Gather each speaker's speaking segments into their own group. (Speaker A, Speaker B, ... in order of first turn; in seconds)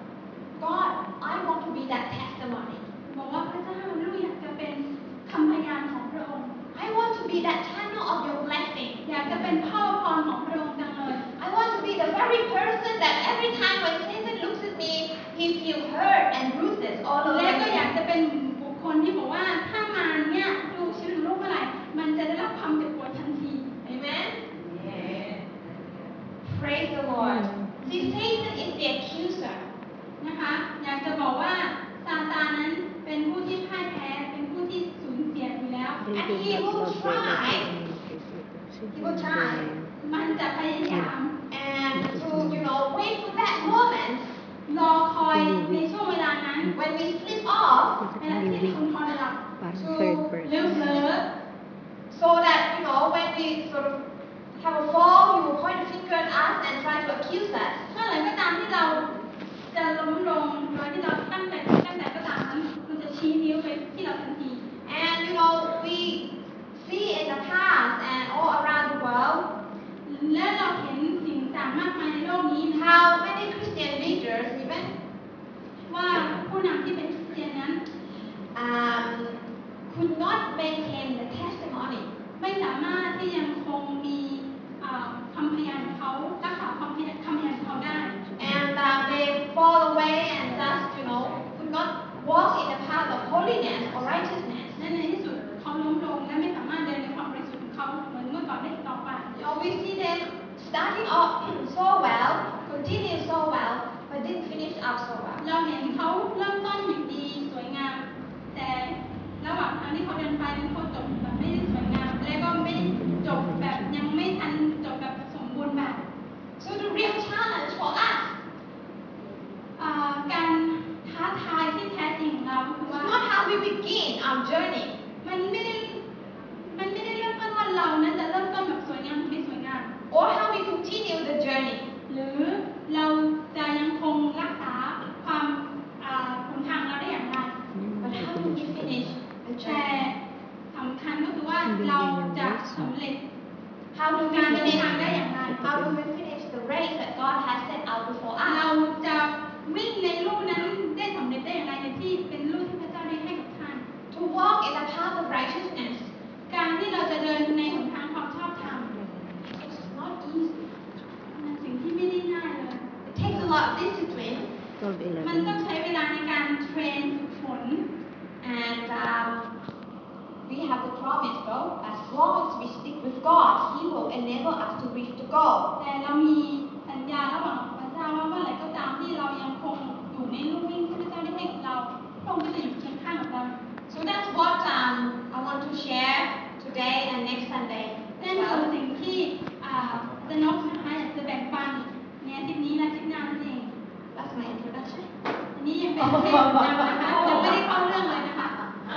Speaker A: 0.6-2.9, 6.7-9.0, 11.4-17.9, 23.8-25.4, 26.4-29.6, 36.1-37.7, 38.9-39.7, 41.5-44.4, 46.7-48.0, 49.7-50.9, 52.1-54.0, 54.6-57.9, 64.8-69.5, 72.7-74.9, 78.5-82.1, 88.4-94.8, 99.3-105.4, 116.6-118.4, 122.9-125.0, 130.1-131.9, 138.0-139.9, 143.9-148.6, 154.1-156.1, 159.5-160.7, 163.1-164.5, 168.4-169.5, 170.5-175.7, 183.9-188.7, 194.1-195.1, 197.0-197.6
Speaker B: 3.1-6.6, 9.0-11.3, 17.2-23.7, 30.2-36.0, 40.0-41.4, 44.7-46.7, 48.2-49.4, 50.4-51.2, 57.9-59.1, 59.7-64.6, 70.1-73.0, 75.9-77.8, 82.4-88.2, 94.8-99.3, 105.4-116.0, 119.8-123.2, 125.2-126.0, 126.6-129.9, 132.1-137.6, 139.6-140.1, 140.7-143.2, 144.1-145.7, 148.4-153.9, 156.5-158.9, 161.3-162.9, 165.2-167.8, 175.8-183.6, 188.2-193.7, 195.6-198.6
Speaker C: 27.2-28.1, 36.0-39.9, 40.9-41.1, 41.9-42.7, 45.3-45.9, 48.0-48.8, 49.6-51.1, 112.7-114.1, 137.7-139.2, 141.6-142.9, 144.5-146.0, 159.0-159.4, 164.8-165.6